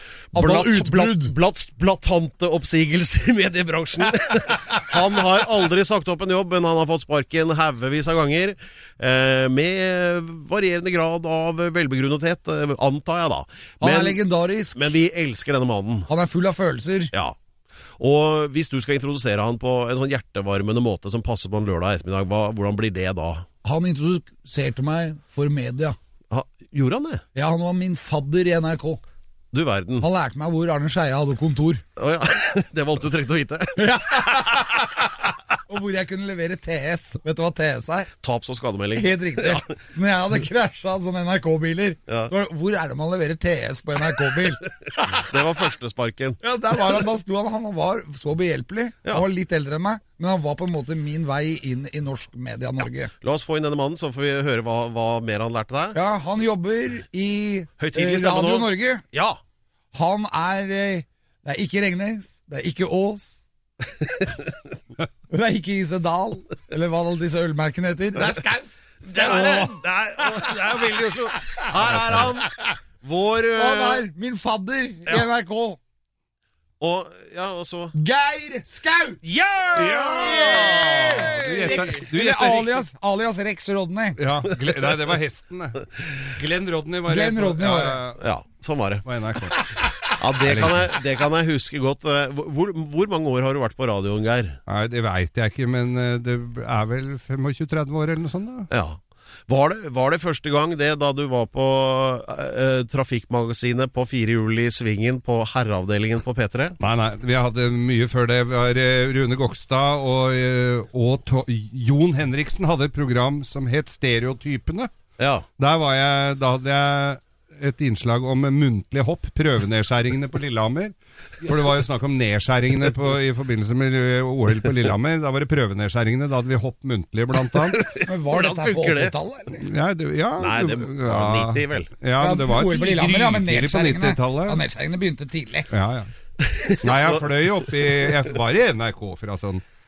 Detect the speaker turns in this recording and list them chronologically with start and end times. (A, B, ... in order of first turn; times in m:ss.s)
0:00.3-0:14.2 A
0:00.3-0:01.3 B
0:13.8-0:14.9 B
0:14.8-0:16.1 A
0:16.1-0:17.1 B
0:18.0-0:23.5 A
0:23.6-0:26.0 B
0:26.3-0:27.2 A
0:27.4-0:29.0 B
0:29.5-0:30.1 A
0:30.0-0:31.8 B
0:32.0-0:34.4 A
0:33.8-0:35.1 B
0:35.7-0:38.1 B
0:38.2-0:39.6 A
0:39.0-0:45.2 B
0:45.1-0:46.4 A
0:46.4-0:53.1 B
0:53.2-0:56.0 A
0:56.0-0:59.0 B
0:57.8-0:59.4 A
0:59.9-1:03.4 B
1:05.3-1:10.6 B
1:09.1-1:12.5 A
1:11.5-1:12.5 B
1:13.0-1:14.0 A
1:13.5-1:15.8 B
1:16.8-1:17.9 A
1:17.9-1:24.2 B
1:19.7-1:22.8 C
1:20.1-1:21.8 A
1:24.2-1:28.3 C
1:27.1-1:28.0 B
1:28.2-1:29.1 A
1:29.0-1:29.7 C
1:30.2-1:34.6 A
1:30.4-1:30.9 C
1:34.7-1:38.7 C
1:38.7-1:46.8 A
1:46.8-1:54.9 C
1:55.2-1:55.5 A
1:55.6-2:07.8 C
2:07.6-2:09.1 A
2:08.0-2:09.7 B
2:09.6-2:14.6 C
2:10.4-2:11.9 A
2:12.2-2:15.7 B
2:15.7-2:16.1 C
2:16.4-2:18.2 A
2:16.8-2:19.6 C